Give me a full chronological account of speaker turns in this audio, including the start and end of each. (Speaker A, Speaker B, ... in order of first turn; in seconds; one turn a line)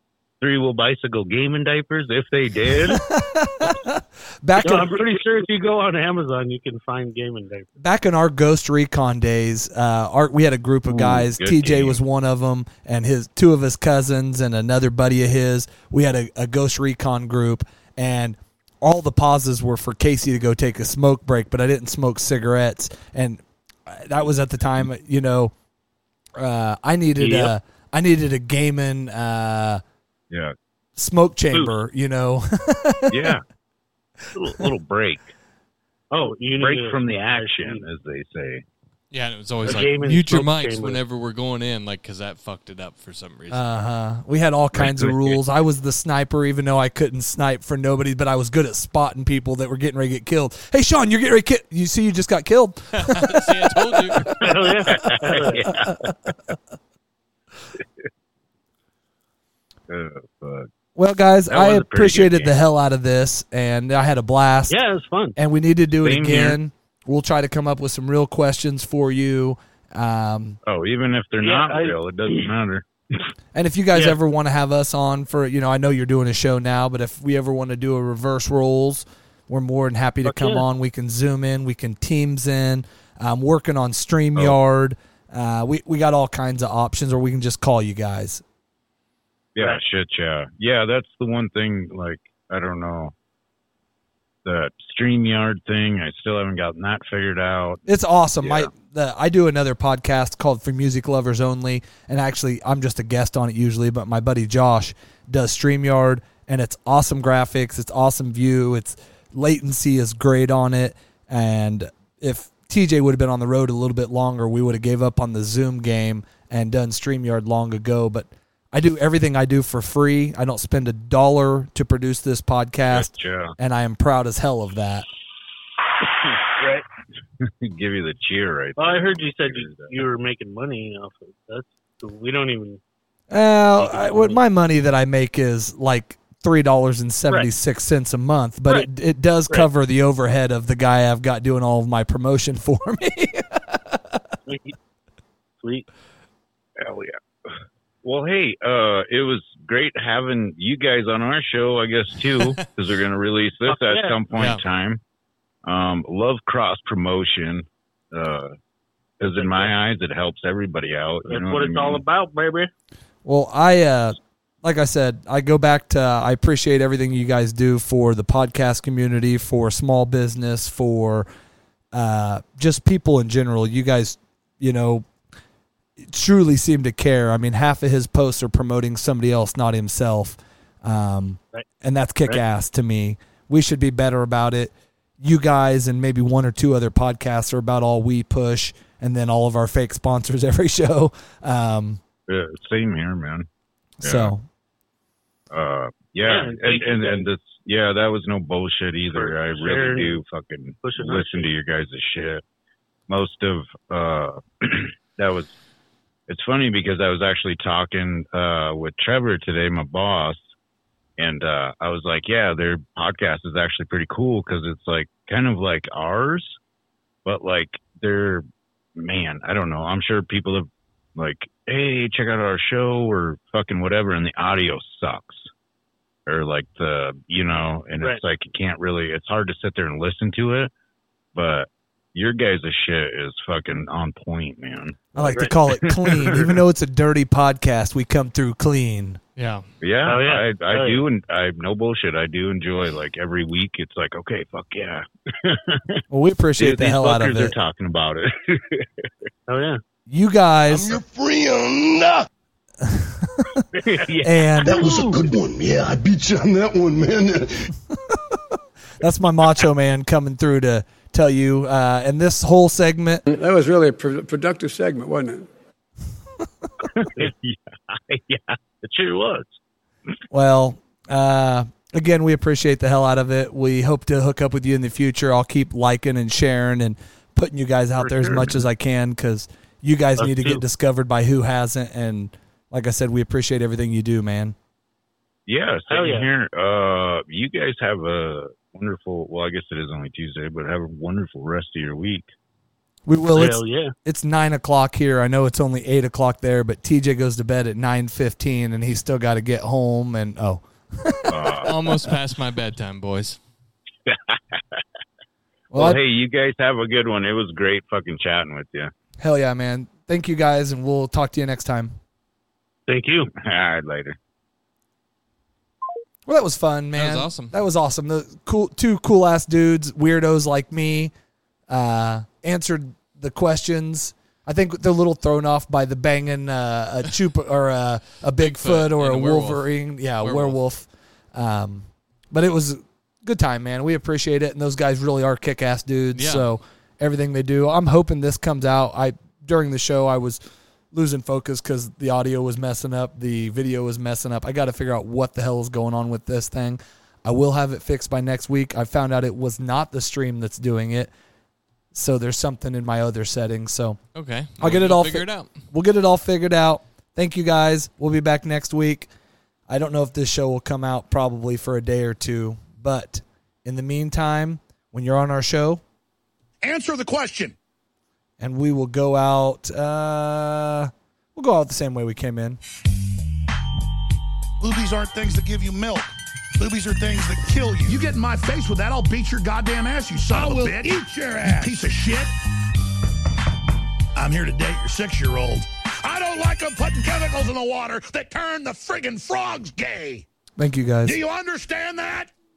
Speaker A: 0.4-3.0
Speaker B: 2.9-5.0
Speaker C: 4.6-7.7
Speaker B: 7.8-25.5
Speaker A: 10.9-12.0
Speaker B: 26.4-29.8
Speaker C: 27.2-27.5
Speaker B: 31.0-33.4
Speaker A: 33.1-33.4
Speaker A: 34.3-35.3
Speaker C: 36.1-37.9
Speaker A: 36.6-38.6
Speaker D: 39.1-43.6
Speaker C: 39.6-41.0
Speaker B: 43.5-54.4
Speaker A: 44.7-45.4
Speaker D: 52.9-54.3
Speaker A: 54.3-56.2
Speaker C: 54.4-55.7
Speaker B: 55.7-56.2
Speaker A: 59.9-60.7
Speaker B: 61.0-64.8
Speaker A: 61.5-62.6
Speaker C: 64.7-65.4
Speaker B: 65.4-70.6
Speaker A: 66.0-66.6
Speaker A: 70.6-72.8
Speaker C: 71.4-72.0
Speaker B: 73.5-88.4
Speaker C: 80.3-80.6
Speaker A: 89.5-93.1
Speaker A: 94.5-97.8
Speaker B: 97.9-125.1
Speaker A: 98.4-98.7
Speaker A: 122.9-123.6
Speaker C: 126.5-126.8
Speaker A: 127.4-129.9
Speaker C: 128.8-132.8
Speaker B: 133.3-144.2
Speaker C: 133.8-134.4
Speaker C: 144.5-144.8
Speaker C: 145.6-145.9
Speaker A: 146.8-155.0
Speaker C: 153.7-154.2
Speaker D: 154.3-154.6
Speaker A: 155.7-158.5
Speaker A: 159.2-162.0
Speaker C: 159.2-159.7
Speaker C: 161.3-162.7
Speaker B: 163.2-171.3
Speaker B: 171.9-175.1
Speaker B: 176.0-192.0
Speaker A: 192.3-193.5
Speaker B: 194.0-194.4
Speaker A: 194.0-194.3
Speaker A: 195.5-202.4
Speaker C: 196.2-197.3
Speaker C: 199.1-200.2
Speaker C: 200.8-201.5
Speaker A: 203.1-205.6
Speaker A: 206.3-210.5
Speaker A: 211.2-216.6
Speaker A: 217.2-225.5
Speaker A: 226.3-230.7
Speaker A: 231.3-236.6
Speaker B: 235.1-239.2
Speaker C: 235.2-235.5
Speaker D: 239.4-239.7
Speaker A: 239.8-246.0
Speaker C: 240.1-241.0
Speaker B: 246.1-247.5
Speaker A: 246.6-249.1
Speaker C: 249.5-249.8
Speaker B: 250.1-251.0
Speaker E: 250.7-252.3
Speaker B: 252.8-253.7
Speaker A: 253.7-255.2
Speaker B: 254.2-254.8
Speaker E: 254.6-257.7
Speaker C: 254.9-255.2
Speaker B: 258.1-258.4
Speaker B: 259.0-263.2
Speaker F: 263.3-265.5
Speaker A: 266.8-269.6
Speaker B: 270.3-284.6
Speaker A: 278.1-278.4
Speaker C: 280.2-280.6
Speaker A: 285.5-292.3
Speaker C: 285.9-286.3
Speaker B: 293.1-302.1
Speaker C: 293.3-293.9
Speaker A: 301.3-301.7
Speaker D: 301.6-303.4
Speaker A: 304.1-304.8
Speaker B: 305.7-306.0
Speaker A: 305.7-308.9
Speaker B: 309.2-311.9
Speaker C: 312.9-313.3
Speaker A: 313.4-314.2
Speaker B: 316.3-321.1
Speaker D: 317.0-317.5
Speaker B: 321.7-340.4
Speaker D: 328.4-329.7
Speaker D: 330.2-330.6
Speaker D: 336.1-336.5
Speaker B: 340.9-351.1
Speaker B: 351.9-354.0
Speaker D: 354.1-355.5
Speaker B: 354.6-359.1
Speaker B: 359.7-365.8
Speaker G: 366.6-367.6
Speaker B: 368.4-372.6
Speaker G: 374.6-382.3
Speaker B: 380.4-380.7
Speaker G: 384.1-390.2
Speaker B: 390.6-391.2
Speaker G: 391.0-392.3